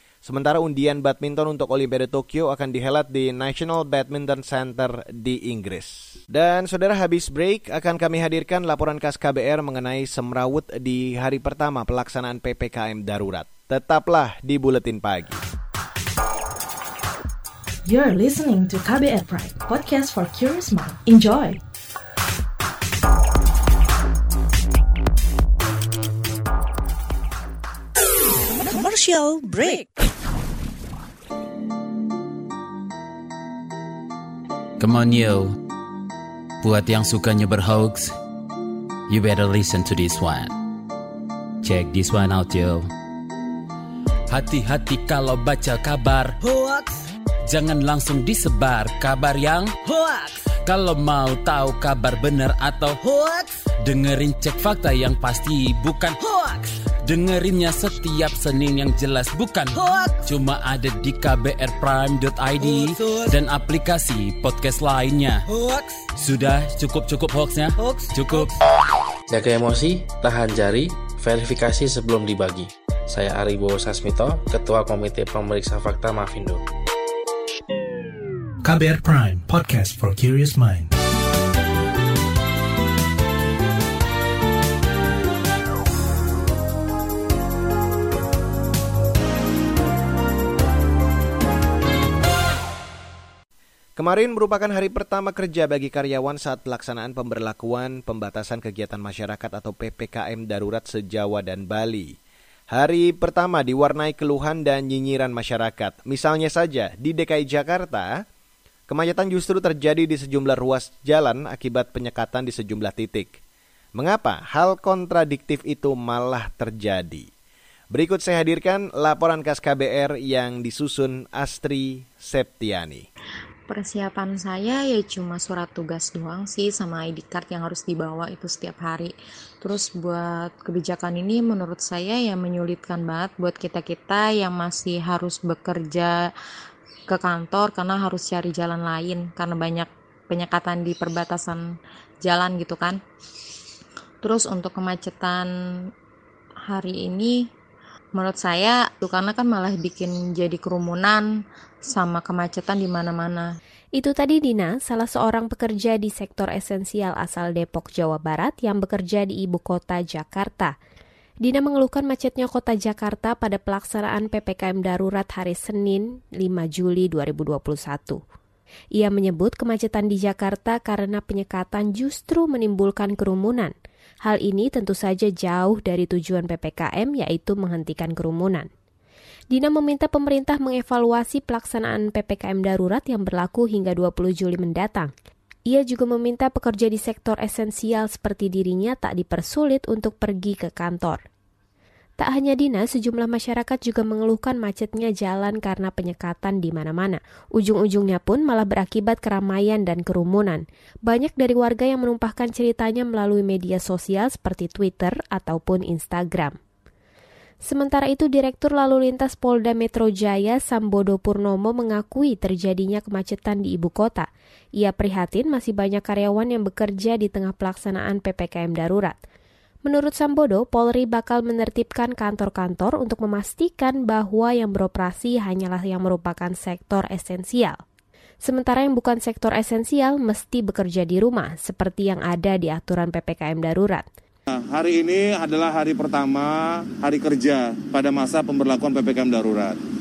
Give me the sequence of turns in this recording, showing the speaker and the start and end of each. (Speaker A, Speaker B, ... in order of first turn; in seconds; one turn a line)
Speaker A: 0.2-15.4
Speaker B: 17.9-21.6
Speaker C: 28.6-29.9
Speaker D: 34.8-35.5
Speaker D: 36.6-38.1
Speaker D: 39.1-40.5
Speaker D: 41.6-42.9
Speaker D: 44.3-46.4
Speaker C: 46.4-47.0
Speaker D: 47.5-49.8
Speaker C: 49.8-50.4
Speaker D: 50.6-53.0
Speaker C: 53.0-53.5
Speaker D: 53.8-56.1
Speaker C: 56.2-56.7
Speaker D: 57.0-65.4
Speaker C: 59.8-60.2
Speaker C: 62.6-63.3
Speaker C: 65.5-66.0
Speaker D: 66.2-68.5
Speaker C: 67.8-68.5
Speaker E: 69.3-76.6
Speaker F: 78.6-80.9
Speaker A: 94.0-102.1
Speaker A: 102.7-108.2
Speaker A: 108.9-113.4
Speaker A: 114.0-117.3
Speaker A: 117.9-123.0
Speaker G: 123.7-136.3
Speaker G: 137.1-143.0
Speaker G: 144.2-145.5
Speaker G: 146.7-147.5
Speaker G: 148.2-151.3
Speaker G: 151.9-153.5
Speaker H: 154.0-160.8
Speaker H: 161.4-168.2
Speaker H: 169.0-178.7
Speaker H: 179.5-185.1
Speaker H: 185.7-191.2
Speaker H: 192.2-206.6
Speaker H: 207.6-219.2
Speaker H: 219.8-227.8
Speaker H: 228.4-234.1
Speaker I: 234.5-239.8